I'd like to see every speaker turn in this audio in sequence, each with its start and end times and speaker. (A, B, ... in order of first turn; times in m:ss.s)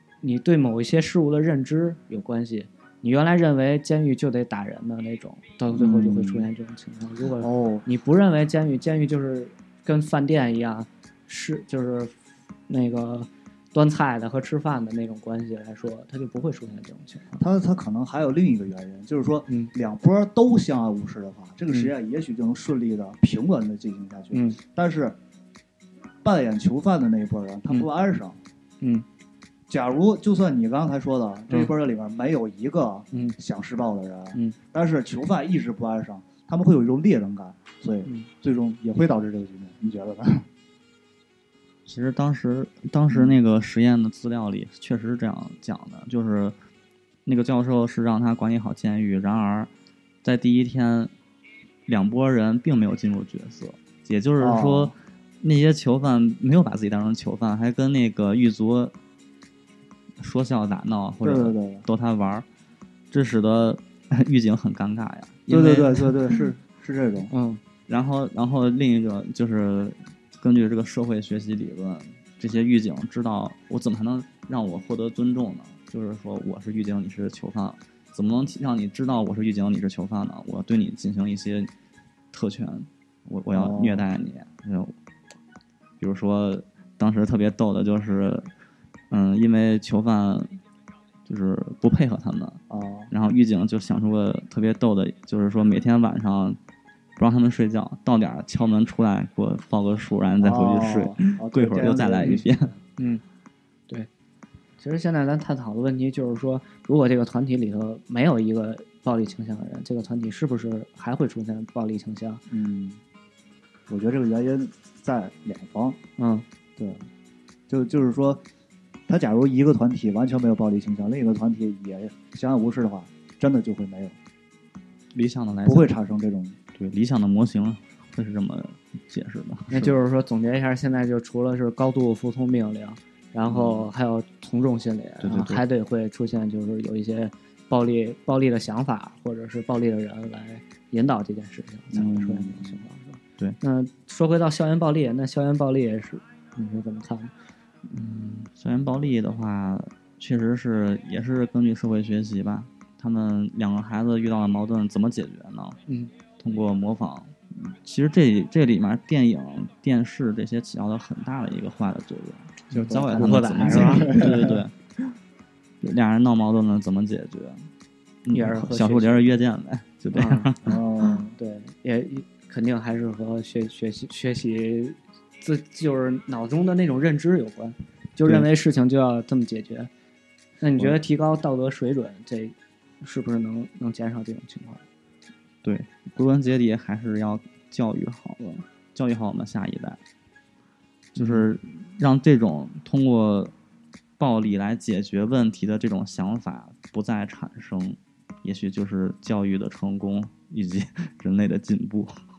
0:00.2-0:12.2 A
0:05.7-0:06.5 B
0:07.4-0:07.8 B
0:12.7-0:17.4 A
0:17.4-0:25.2 B
0:24.3-0:24.6 A
0:26.2-0:28.4 B
0:28.8-0:29.0 A
0:29.7-0:40.5 B
0:41.8-0:46.5 C
0:43.1-0:43.4 B
0:47.2-0:49.7 C
0:50.2-0:51.1 C
0:51.9-0:58.9 C
0:54.4-0:54.9 B
1:00.2-1:02.4 C
1:01.2-1:01.8 B
1:03.1-1:06.1 C
1:05.5-1:07.3 B
1:07.3-1:07.6 A
1:07.9-1:21.7 C
1:22.3-1:24.9 C
1:23.5-1:24.1 B
1:26.0-1:28.5 C
1:29.1-1:30.6 C
1:31.2-1:36.6 C
1:32.7-1:33.1 B
1:37.2-1:42.7 C
1:40.4-1:42.8 B
1:43.0-1:43.2 A
1:44.8-1:52.4 A
1:52.5-1:53.0 B
1:53.9-1:56.0 B
1:56.2-1:56.4 A
1:56.8-1:57.1 B
1:57.7-1:58.4 B
1:59.1-2:04.2 B
2:05.1-2:05.9 C
2:05.6-2:06.6 B
2:06.8-2:10.0 C
2:09.7-2:27.3 A
2:13.4-2:13.8 B
2:15.2-2:15.6 C
2:21.9-2:22.8 B
2:27.9-2:35.8 C
2:36.4-2:44.7 C
2:42.7-2:44.6 B
2:42.8-2:44.3 A
2:45.8-2:47.7 C
2:48.2-2:50.8 C
2:48.3-2:49.3 A
2:50.1-2:50.5 A
2:50.6-2:51.3 B
2:51.0-2:59.9 A
3:00.6-3:04.8 A
3:05.6-3:10.0 C
3:11.1-3:13.5 C
3:11.2-3:11.4 A
3:14.2-3:22.2 C